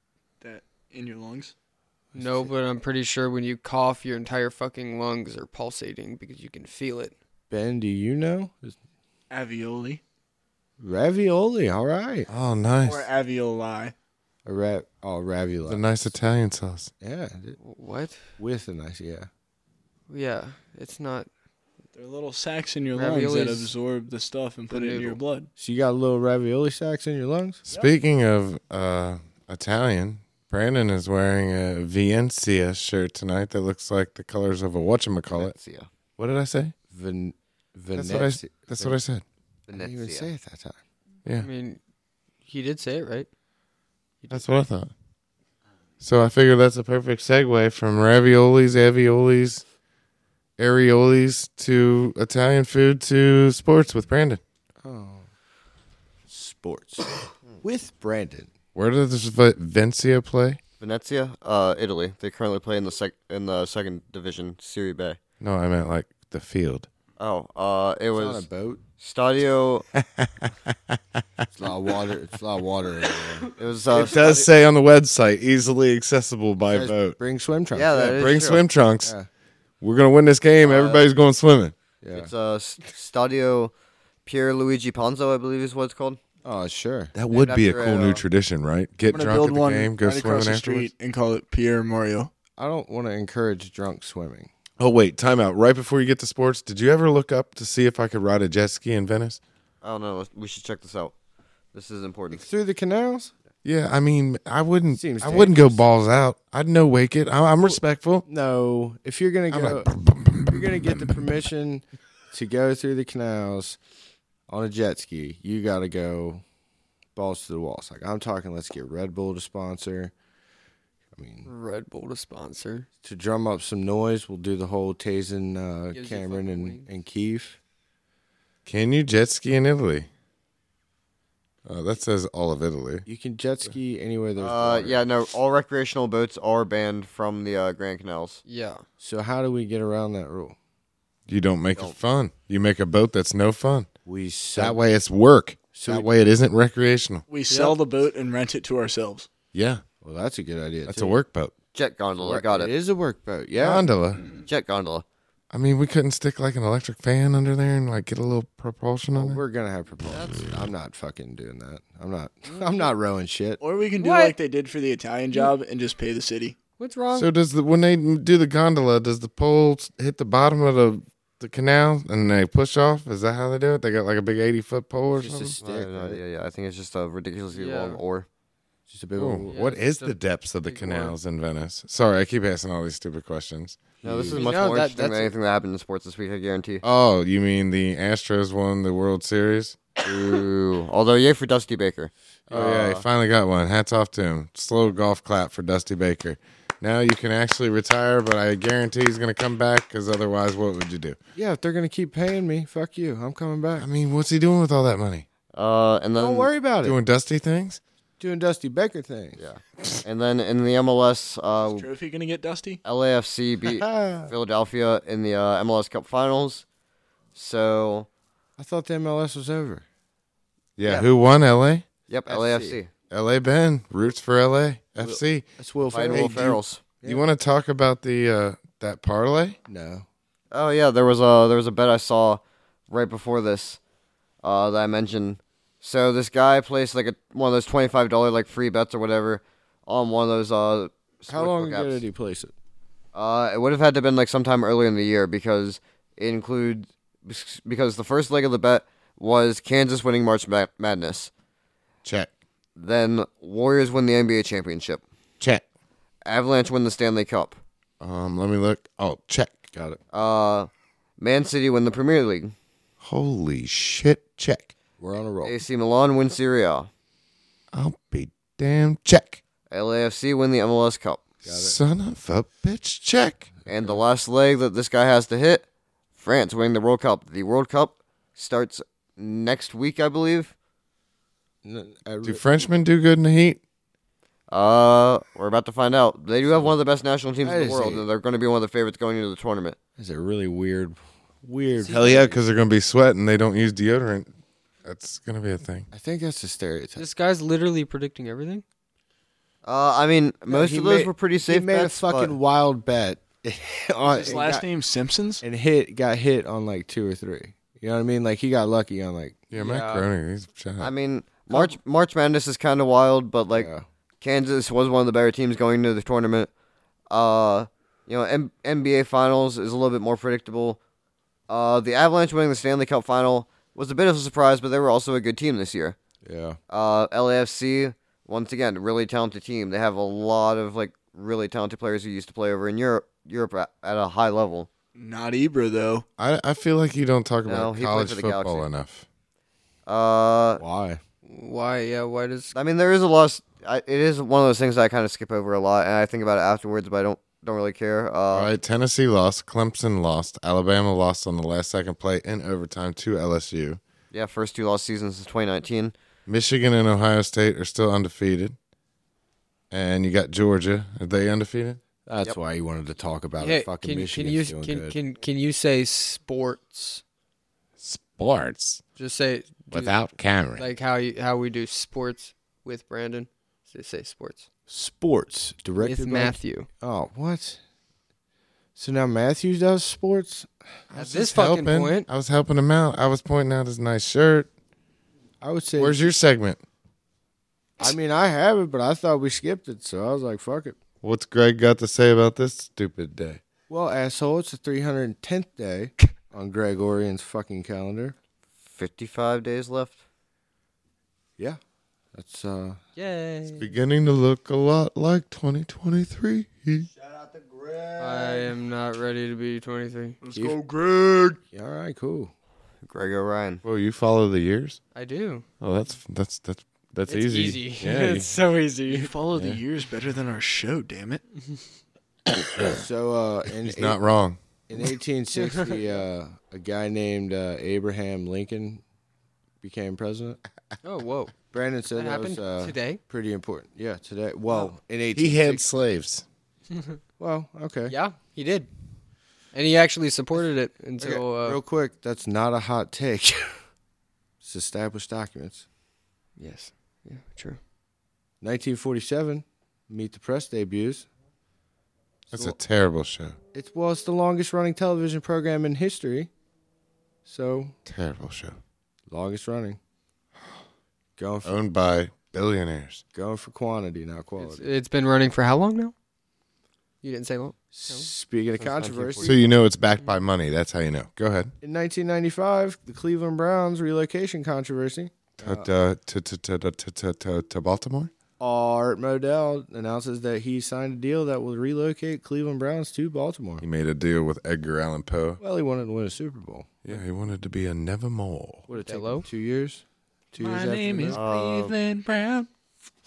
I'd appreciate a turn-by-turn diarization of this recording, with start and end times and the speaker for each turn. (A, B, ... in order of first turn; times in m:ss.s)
0:00.4-0:01.5 A
0:02.1-0:02.5 B
0:02.2-0:07.1 C
0:07.5-0:08.8 B
0:09.3-0:10.0 A
0:10.8-0:12.3 B
0:12.3-0:13.1 D
0:12.8-0:13.9 A
0:14.5-0:15.8 B
0:15.7-0:16.9 D
0:17.0-0:17.6 B
0:17.6-0:18.2 C
0:18.4-0:19.3 B
0:20.1-0:21.3 C
0:22.0-0:25.5 A
0:22.9-0:23.8 C
0:24.7-0:25.2 C
0:25.6-0:27.6 B
0:27.7-0:35.6 D
0:35.3-0:35.9 E
0:36.2-0:36.7 D
0:36.9-0:39.0 B
0:37.9-0:39.2 D
0:39.7-0:40.3 E
0:39.7-0:40.8 B
0:41.4-0:41.8 C
0:42.4-0:43.3 C
0:44.3-0:44.9 D
0:46.0-0:49.6 D
0:50.6-0:54.4 D
0:54.8-0:55.3 B
0:56.3-0:58.5 B
0:58.8-1:00.6 D
1:00.8-1:05.2 E
1:05.4-1:06.9 D
1:07.2-1:08.4 E
1:08.1-1:08.8 B
1:09.0-1:09.9 E
1:10.0-1:11.2 D
1:11.5-1:13.5 B
1:13.6-1:14.3 E
1:13.9-1:17.2 D
1:14.2-1:14.4 C
1:16.7-1:18.5 B
1:17.7-1:18.7 E
1:18.1-1:19.1 D
1:19.0-1:19.3 B
1:19.8-1:21.8 D
1:20.6-1:21.1 E
1:22.0-1:22.3 B
1:22.1-1:23.7 E
1:24.3-1:26.2 E
1:26.4-1:27.1 B
1:27.1-1:30.9 D
1:27.3-1:28.2 E
1:29.1-1:32.3 A
1:32.6-1:34.5 B
1:34.8-1:39.4 D
1:39.8-1:41.1 E
1:41.7-1:42.4 E
1:42.3-1:43.3 B
1:43.6-1:48.2 D
1:44.9-1:45.8 B
1:48.3-1:49.9 B
1:49.5-1:51.2 D
1:50.5-1:53.8 B
1:54.5-1:56.4 B
1:57.2-2:00.1 B
2:01.2-2:01.5 B
2:01.4-2:02.9 C
2:03.0-2:07.6 B
2:05.9-2:06.9 C
2:08.7-2:10.1 D
2:11.7-2:13.0 D
2:13.1-2:15.0 B
2:14.4-2:18.4 E
2:18.5-2:18.8 C
2:19.0-2:20.6 B
2:21.3-2:23.9 D
2:24.0-2:24.8 B
2:24.6-2:27.2 D
2:25.7-2:26.1 B
2:27.3-2:29.3 A
2:27.5-2:27.8 C
2:29.5-2:29.8 D
2:30.0-2:31.2 B
2:30.9-2:31.5 D
2:31.7-2:32.7 E
2:32.2-2:33.8 B
2:33.6-2:34.2 D
2:34.5-2:35.0 E
2:35.5-2:39.4 D
2:39.1-2:43.6 B
2:42.5-2:42.9 C
2:43.6-2:46.6 A
2:44.0-2:44.4 C
2:46.8-2:47.3 C
2:47.1-2:55.6 D
2:55.1-2:56.2 B
2:55.6-2:58.3 E
2:57.5-2:58.0 C
2:58.9-2:59.6 B
2:59.2-3:03.8 D
2:59.5-3:01.1 C
3:04.0-3:04.4 B
3:04.0-3:06.8 E
3:04.3-3:05.3 C
3:06.8-3:09.8 D
3:10.0-3:13.0 E
3:12.5-3:21.2 D
3:21.4-3:23.9 B
3:23.8-3:25.3 D
3:25.5-3:26.5 E
3:26.2-3:27.0 B
3:26.8-3:27.8 D
3:28.2-3:29.4 B
3:29.4-3:31.9 E
3:31.7-3:32.8 A
3:32.8-3:36.6 E
3:33.7-3:34.3 B
3:37.4-3:38.1 E
3:38.6-3:39.8 B
3:40.8-3:41.8 D
3:42.1-3:42.9 E
3:42.3-3:42.8 B
3:43.1-3:45.5 D
3:45.0-3:47.2 B
3:45.9-3:46.8 E
3:46.1-3:49.6 D
3:49.7-3:50.1 B
3:50.5-3:53.8 E
3:54.4-4:02.0 E
4:01.3-4:02.5 B
4:03.1-4:11.3 E
4:12.0-4:12.3 D
4:12.8-4:15.0 E
4:16.2-4:17.6 E
4:18.0-4:19.6 D
4:19.7-4:20.0 B
4:20.1-4:22.5 E
4:23.0-4:24.7 D
4:25.0-4:25.6 B
4:25.4-4:26.9 E
4:27.7-4:29.4 D
4:29.7-4:31.3 E
4:31.4-4:31.8 B
4:31.5-4:33.5 D
4:33.6-4:34.0 B
4:33.7-4:35.6 E
4:36.2-4:40.5 E
4:41.6-4:42.4 B
4:42.2-4:43.6 D
4:44.5-4:49.8 E
4:47.4-4:48.0 B
4:50.0-4:52.3 B
4:51.8-4:52.4 C
4:51.9-4:54.3 D
4:54.8-4:55.9 D
4:55.9-4:57.1 B
4:57.0-4:58.6 C
4:59.6-5:02.4 E
5:00.5-5:04.7 B
5:04.1-5:05.4 A
5:05.4-5:09.4 B
5:09.5-5:10.9 D
5:09.6-5:10.1 C
5:10.8-5:13.7 E
5:13.5-5:13.9 B
5:14.2-5:16.5 E
5:17.1-5:20.8 E
5:21.5-5:26.0 E
5:26.2-5:26.6 B
5:26.7-5:34.7 E
5:35.0-5:36.1 A
5:36.2-5:39.1 D
5:37.5-5:38.6 E
5:39.9-5:40.6 E
5:40.6-5:41.0 B
5:41.2-5:42.6 C
5:42.5-5:48.5 E
5:48.3-5:53.8 D
5:54.1-5:55.9 E
5:56.3-5:58.6 D
5:59.7-6:01.8 D
6:02.1-6:05.0 B
6:03.4-6:07.0 C
6:07.8-6:08.8 D
6:09.0-6:10.0 C
6:09.7-6:10.7 D
6:10.6-6:14.5 C
6:14.7-6:17.6 B
6:15.8-6:16.7 C
6:18.8-6:20.5 B
6:20.9-6:24.5 D
6:21.0-6:22.1 C
6:25.4-6:26.1 B
6:25.8-6:26.6 D
6:27.8-6:30.8 B
6:31.0-6:33.4 D
6:33.7-6:38.2 B
6:38.8-6:40.0 E
6:42.1-6:42.8 B
6:43.0-6:43.7 C
6:43.6-6:46.9 D
6:48.0-6:50.2 C
6:50.2-6:51.4 A
6:50.3-6:50.6 B
6:51.5-6:52.3 B
6:52.9-6:53.6 E
6:53.6-6:54.8 D
6:54.9-6:55.5 C
6:55.6-6:58.3 D
6:57.1-6:59.1 C
6:58.9-7:01.2 A
6:59.3-6:59.6 D
7:02.4-7:02.8 D
7:02.7-7:04.0 B
7:03.6-7:04.4 D
7:04.7-7:08.8 B
7:09.6-7:10.4 B
7:10.8-7:11.4 C
7:11.5-7:15.7 B
7:11.9-7:13.0 C
7:15.1-7:16.2 D
7:16.7-7:17.0 C
7:17.2-7:18.0 B
7:17.9-7:18.7 C
7:19.5-7:21.6 C
7:21.0-7:23.6 B
7:24.4-7:25.6 B
7:26.4-7:27.6 C
7:28.4-7:31.1 B
7:32.3-7:32.6 B
7:32.3-7:33.4 D
7:33.5-7:36.3 B
7:37.3-7:37.8 B
7:37.8-7:38.6 D
7:39.1-7:39.8 B
7:41.2-7:41.6 B
7:41.4-7:43.0 D
7:43.1-7:44.7 B
7:44.4-7:45.9 C
7:47.0-7:48.1 C
7:47.7-7:49.3 B
7:48.6-7:49.5 E
7:49.2-7:51.5 D
7:51.6-7:55.7 B
7:55.4-7:58.1 D
7:58.4-8:03.6 B
8:03.6-8:05.4 D
8:05.4-8:07.0 B
8:06.8-8:08.7 D
8:08.7-8:11.2 B
8:08.8-8:09.3 C
8:10.4-8:12.5 A
8:11.1-8:11.8 E